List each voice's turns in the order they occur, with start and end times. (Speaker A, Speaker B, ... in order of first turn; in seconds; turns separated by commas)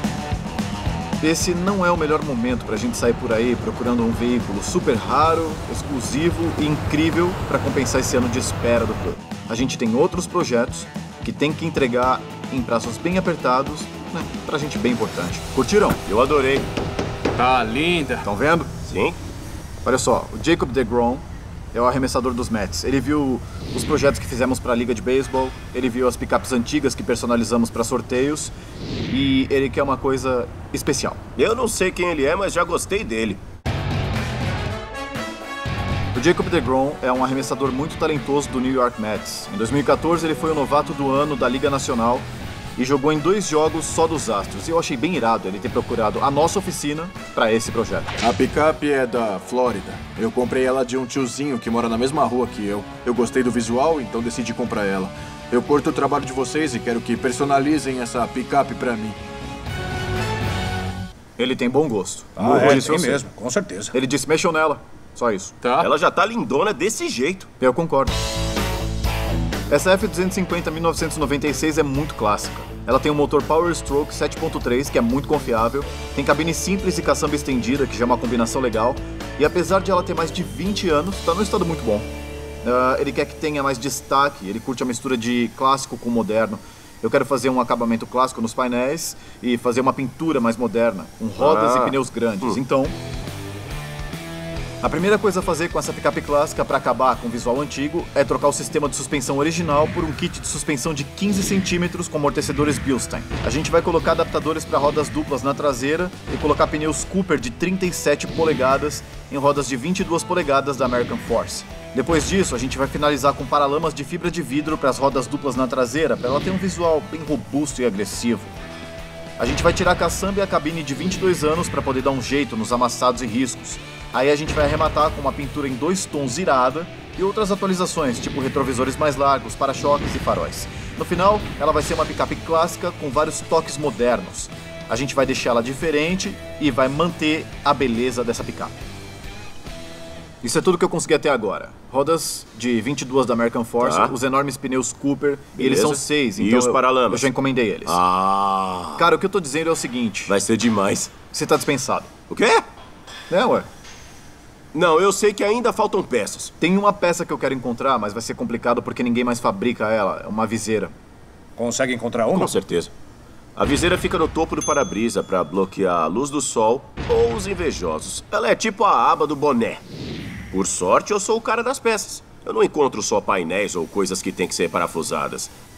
Speaker A: 1.2-16.0, Speaker B: 16.0-16.7, Speaker C: 17.4-18.3, Speaker A: 18.2-18.7, Speaker B: 18.8-19.2, Speaker A: 19.8-28.5, Speaker A: 29.1-31.2, Speaker B: 31.4-33.4, Speaker A: 36.1-48.2, Speaker C: 48.2-59.2, Speaker A: 61.4-63.2, Speaker D: 62.4-63.9, Speaker A: 63.9-65.5, Speaker C: 65.6-65.9, Speaker B: 65.8-67.5, Speaker A: 67.6-68.1, Speaker A: 69.7-82.1, Speaker A: 82.6-92.9, Speaker B: 91.4-92.6, Speaker A: 94.8-118.5, Speaker A: 119.4-138.7, Speaker A: 140.4-148.0, Speaker B: 143.8-144.1, Speaker B: 145.6-147.3, Speaker B: 147.8-149.1, Speaker A: 149.0-150.3, Speaker B: 150.3-151.1, Speaker A: 151.3-152.1, Speaker B: 152.3-152.6, Speaker A: 153.3-153.7, Speaker B: 154.7-156.5, Speaker A: 156.6-160.9, Speaker D: 161.6-162.6, Speaker B: 162.3-162.9, Speaker B: 163.6-169.8, Speaker B: 170.5-175.5